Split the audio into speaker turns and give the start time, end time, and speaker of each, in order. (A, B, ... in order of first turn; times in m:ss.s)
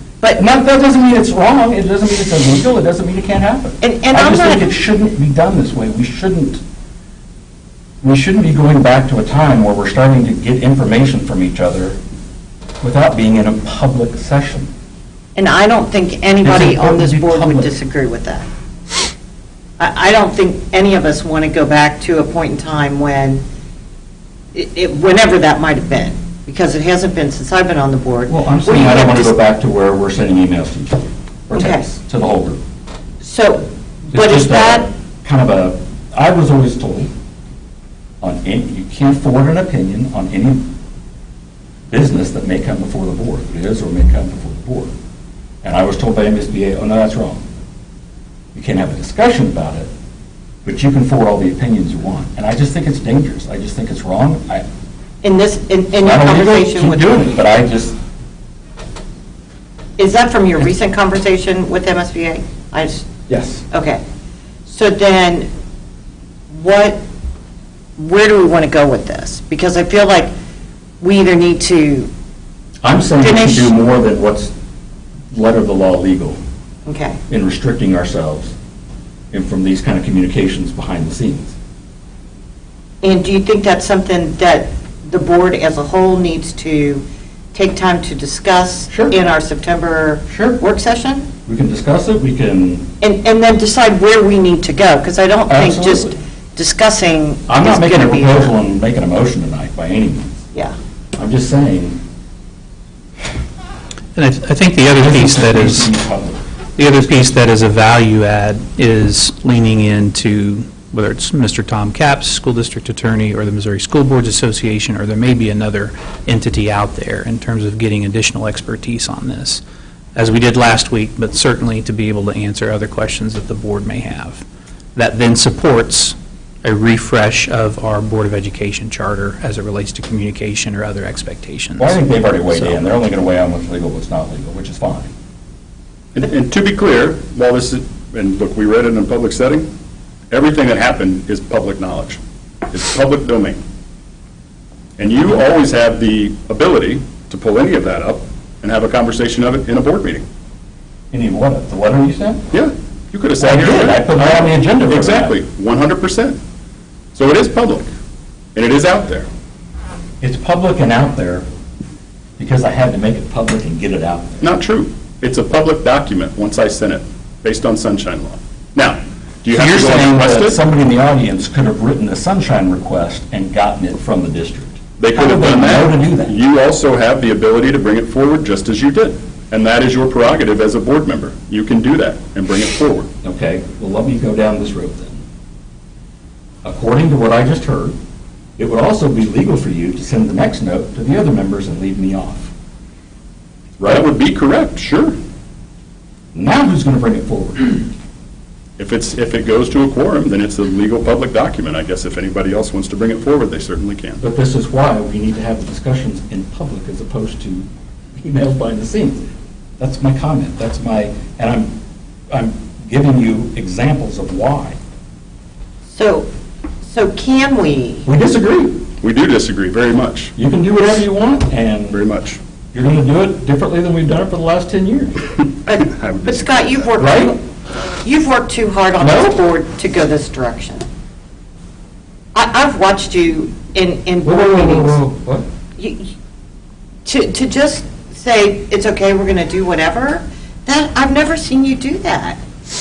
0:00.4-0:06.6 A
0:03.8-0:04.7 B
0:08.0-0:12.0 A
0:12.8-0:14.7 A
0:15.4-0:18.5 B
0:16.4-0:17.8 A
0:19.8-0:23.4 B
0:24.5-0:29.4 B
0:28.3-0:32.6 A
0:31.5-0:31.9 B
0:33.2-0:34.9 B
0:34.1-0:37.1 A
0:38.2-0:40.7 A
0:41.9-0:44.9 A
0:45.6-0:47.4 A
0:48.5-0:49.9 A
0:50.6-0:54.6 A
0:55.2-0:57.2 B
0:56.0-0:58.0 A
1:00.0-1:03.1 B
1:03.3-1:03.6 A
1:03.7-1:04.0 B
1:04.7-1:05.5 B
1:06.5-1:07.0 B
1:08.0-1:10.3 B
1:11.0-1:12.1 B
1:12.8-1:14.5 A
1:13.2-1:13.8 B
1:15.3-1:16.4 A
1:16.9-1:17.2 B
1:17.3-1:18.5 A
1:19.3-1:21.6 A
1:23.0-1:31.3 B
1:28.9-1:29.2 A
1:30.3-1:30.6 A
1:31.5-1:32.9 A
1:33.0-1:38.6 B
1:35.5-1:36.1 A
1:37.5-1:40.4 A
1:41.2-1:42.0 A
1:44.2-1:45.9 C
1:45.0-1:46.4 A
1:46.8-1:59.6 C
2:00.2-2:12.8 C
2:11.8-2:15.1 A
2:16.2-2:19.7 D
2:20.3-2:23.6 D
2:25.0-2:30.2 D
2:31.1-2:32.5 A
2:32.5-2:36.4 D
2:33.4-2:35.4 A
2:37.2-2:37.9 D
2:38.6-2:39.3 D
2:40.2-2:41.5 A
2:42.4-2:44.5 A
2:44.4-2:50.6 D
2:49.5-2:56.4 A
2:55.0-3:03.1 D
3:03.2-3:05.2 A
3:06.6-3:08.0 A
3:08.6-3:12.5 A
3:13.8-3:14.1 A
3:13.9-3:15.2 D
3:16.3-3:17.9 A
3:18.8-3:24.2 D
3:24.2-3:29.3 A
3:29.8-3:31.7 A
3:32.3-3:34.8 A
3:35.9-3:36.3 B
3:36.9-3:38.1 B
3:38.1-3:38.9 A
3:39.0-3:40.3 D
3:40.4-3:42.0 A
3:41.9-3:42.4 D
3:42.7-3:45.3 A
3:45.7-3:47.4 B
3:45.9-3:46.8 D
3:47.0-3:47.4 A
3:48.0-3:50.8 B
3:49.0-3:49.4 A
3:52.4-3:55.0 B
3:54.2-3:55.5 A
3:55.8-3:56.1 B
3:57.0-4:02.4 B